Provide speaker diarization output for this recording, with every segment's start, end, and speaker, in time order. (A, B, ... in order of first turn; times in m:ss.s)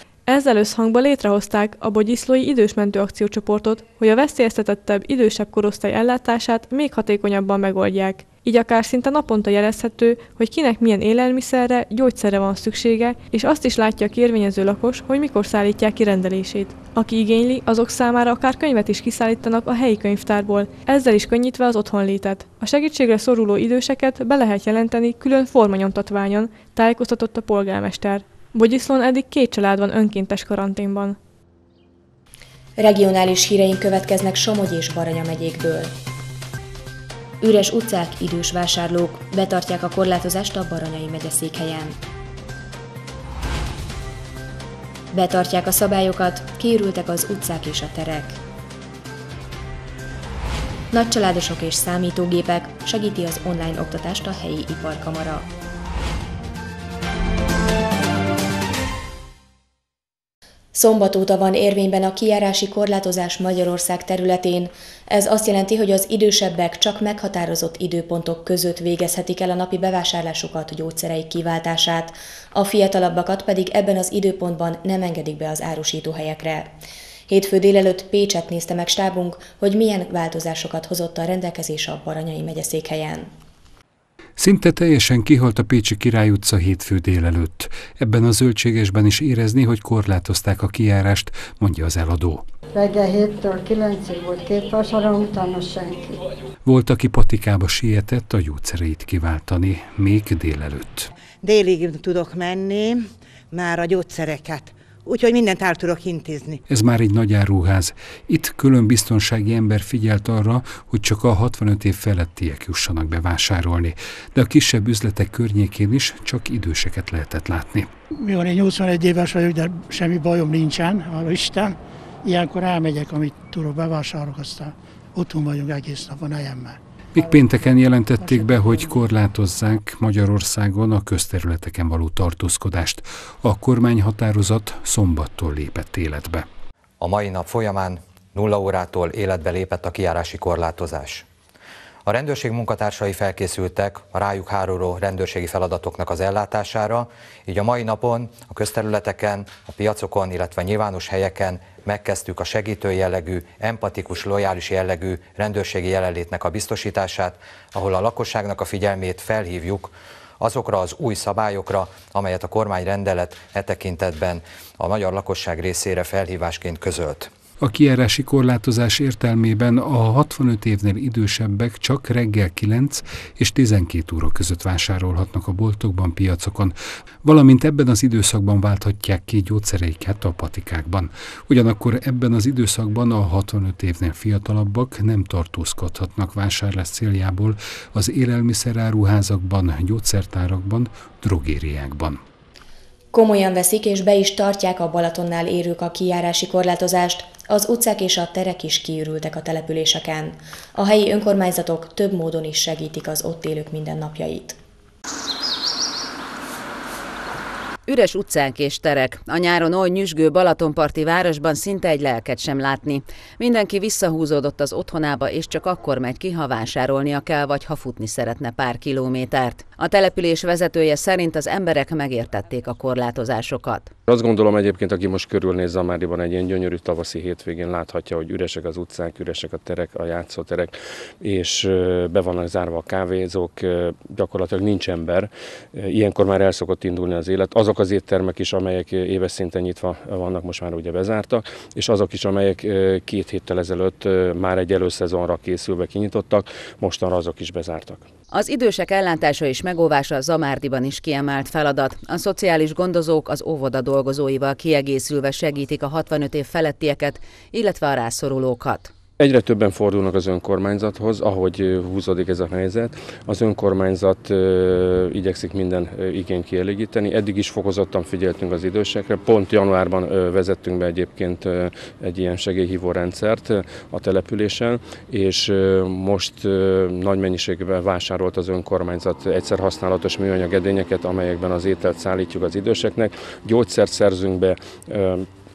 0:00.3-0:31.2 A
0:32.8-0:35.9 B
0:37.4-0:42.0 B
0:45.1-0:48.4 B
0:50.9-0:55.5 B
1:00.7-1:16.7 B
1:17.3-1:23.3 B
1:24.4-1:32.4 C
1:32.7-1:36.2 D
1:36.6-1:41.1 C
1:41.4-1:46.6 E
1:46.7-1:57.9 C
1:58.2-2:06.8 F
2:07.2-2:16.5 C
2:17.0-2:21.2 G
2:22.1-2:47.3 G
2:47.6-3:12.2 C
3:13.1-3:24.6 B
3:27.9-3:43.9 H
3:44.1-4:08.1 I
4:08.3-4:18.9 H
4:19.2-4:45.3 I